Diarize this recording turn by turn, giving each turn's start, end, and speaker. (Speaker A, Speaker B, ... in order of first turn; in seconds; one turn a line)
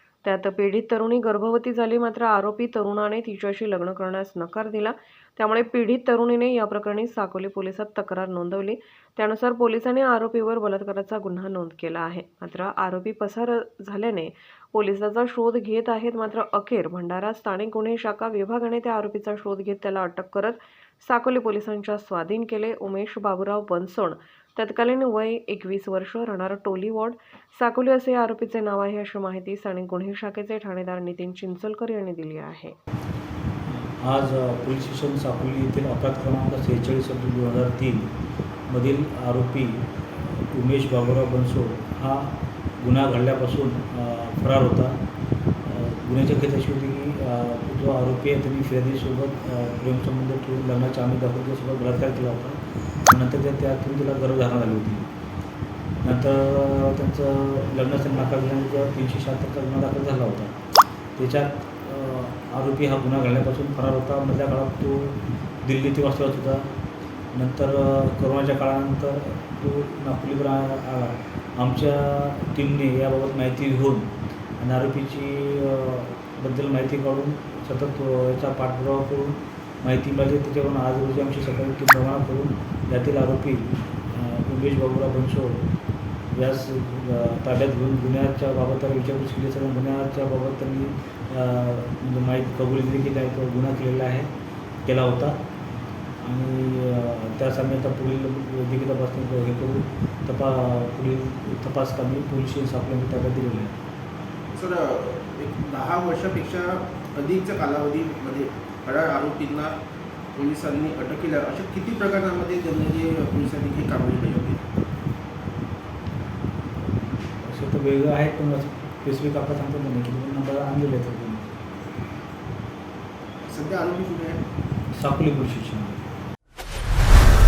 Speaker A: 0.2-32.8
Speaker B: 33.7-38.1
Speaker B: 38.7-45.0
Speaker B: 45.6-55.1
Speaker B: 56.0-60.6
Speaker B: 61.1-66.7
Speaker B: 67.3-85.7
Speaker B: 86.3-94.3
Speaker B: 94.8-95.4
Speaker B: 96.2-103.7
Speaker C: 104.5-109.7
Speaker C: 110.3-114.6
Speaker B: 117.4-121.5
Speaker C: 123.5-124.4
Speaker B: 124.9-126.0